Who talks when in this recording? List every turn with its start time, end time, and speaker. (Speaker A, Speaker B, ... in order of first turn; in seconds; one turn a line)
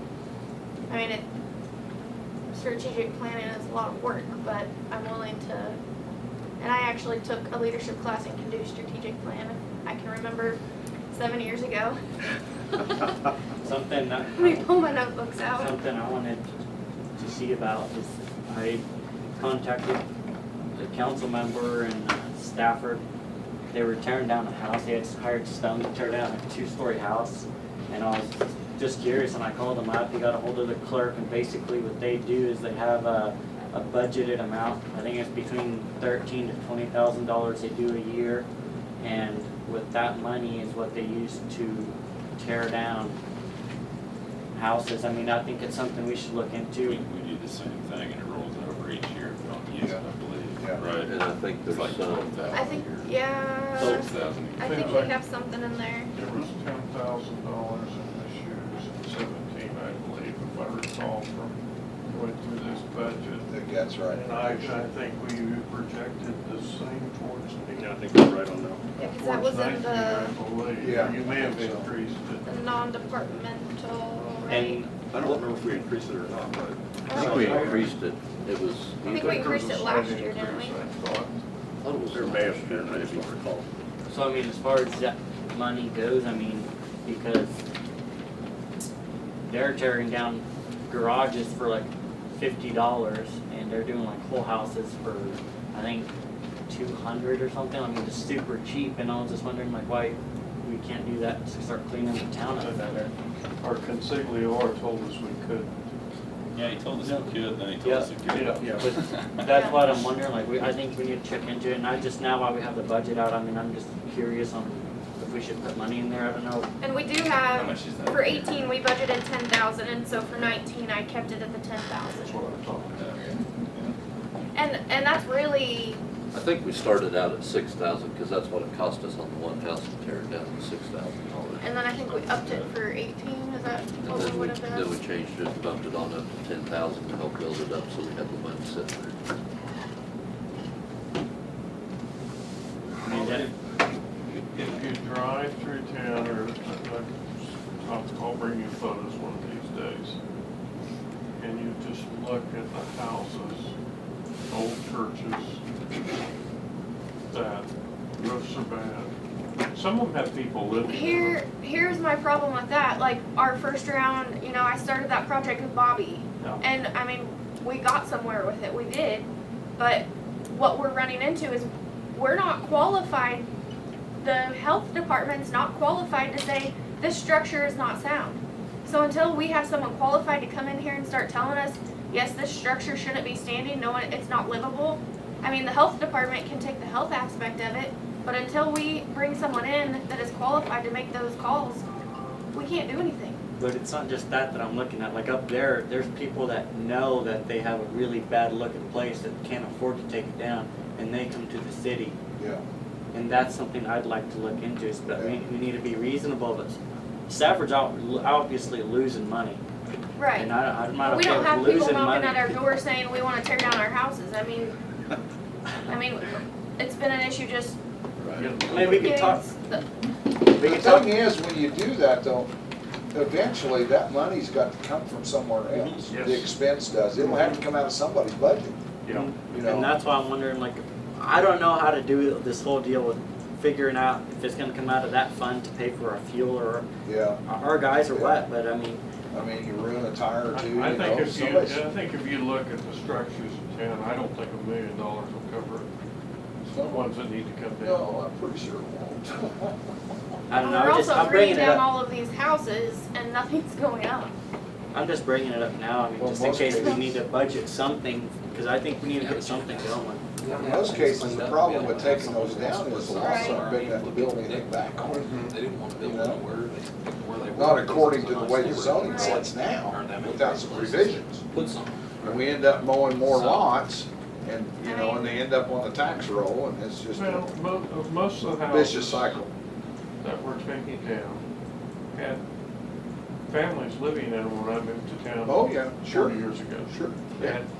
Speaker A: 0.9-1.2
Speaker A: 2.5-5.8
Speaker A: 6.6-10.6
Speaker A: 11.1-12.0
Speaker B: 13.6-14.7
Speaker A: 14.3-15.7
Speaker B: 15.5-16.4
Speaker B: 17.2-18.8
Speaker B: 19.4-20.0
Speaker B: 20.7-23.0
Speaker B: 23.7-38.5
Speaker B: 39.0-43.2
Speaker B: 44.5-47.0
Speaker C: 46.8-53.2
Speaker D: 51.0-52.8
Speaker A: 52.5-56.1
Speaker C: 53.7-55.2
Speaker E: 54.7-55.0
Speaker E: 56.1-61.6
Speaker E: 62.1-63.5
Speaker F: 63.5-64.3
Speaker E: 64.1-67.9
Speaker G: 67.7-68.8
Speaker A: 69.0-70.3
Speaker E: 69.0-72.5
Speaker F: 70.8-71.9
Speaker A: 72.4-74.8
Speaker B: 74.5-75.3
Speaker G: 75.0-77.9
Speaker A: 77.1-77.5
Speaker D: 77.1-79.6
Speaker E: 77.4-77.8
Speaker B: 77.4-77.8
Speaker E: 79.0-81.3
Speaker A: 79.0-80.8
Speaker D: 81.8-83.4
Speaker G: 82.1-83.6
Speaker B: 84.1-87.6
Speaker B: 89.5-96.1
Speaker B: 96.7-103.1
Speaker E: 102.5-103.0
Speaker E: 103.6-105.7
Speaker C: 106.5-109.4
Speaker B: 107.0-116.7
Speaker E: 108.3-108.7
Speaker A: 109.4-110.0
Speaker A: 116.8-122.3
Speaker C: 117.5-118.7
Speaker E: 122.2-123.0
Speaker C: 122.9-123.9
Speaker A: 124.5-126.0
Speaker D: 126.3-131.9
Speaker A: 131.6-134.9
Speaker D: 134.0-139.2
Speaker B: 143.0-143.5
Speaker E: 143.1-143.5
Speaker E: 144.5-150.2
Speaker E: 151.4-153.7
Speaker E: 154.5-155.6
Speaker E: 157.3-157.7
Speaker E: 158.2-159.1
Speaker E: 159.7-161.4
Speaker A: 160.8-173.5
Speaker A: 174.2-191.8
Speaker A: 192.5-193.4
Speaker B: 193.6-202.2
Speaker F: 202.3-202.6
Speaker B: 203.1-209.6
Speaker F: 205.1-205.4
Speaker A: 210.2-214.8
Speaker B: 210.3-212.6
Speaker A: 215.9-217.8
Speaker D: 218.2-218.5
Speaker E: 218.3-219.3
Speaker B: 218.6-219.5
Speaker A: 218.8-219.9
Speaker F: 220.5-222.5
Speaker B: 220.6-221.1
Speaker F: 223.1-228.8
Speaker B: 225.7-226.0
Speaker E: 226.1-226.5
Speaker E: 227.2-227.6
Speaker E: 229.0-229.3
Speaker B: 229.1-236.9
Speaker F: 229.5-229.9
Speaker F: 237.0-237.4
Speaker B: 237.4-239.0
Speaker F: 238.1-238.4
Speaker F: 239.3-241.8
Speaker E: 240.5-245.9
Speaker F: 246.6-247.1
Speaker E: 246.8-248.0
Speaker F: 247.8-249.8
Speaker B: 250.5-251.9
Speaker A: 250.6-254.3
Speaker B: 254.9-260.2
Speaker F: 256.2-257.1
Speaker A: 256.7-257.0
Speaker H: 259.1-272.4
Speaker F: 260.5-265.2
Speaker D: 262.8-263.2
Speaker A: 263.2-263.6
Speaker E: 265.2-265.6
Speaker F: 266.0-266.4
Speaker F: 267.5-271.5
Speaker A: 269.0-269.4
Speaker F: 272.2-277.5
Speaker H: 273.2-273.6
Speaker A: 274.8-275.4
Speaker E: 277.1-279.3
Speaker F: 278.6-279.5
Speaker E: 280.2-281.4
Speaker E: 282.1-282.4
Speaker E: 283.5-287.7
Speaker F: 285.4-287.5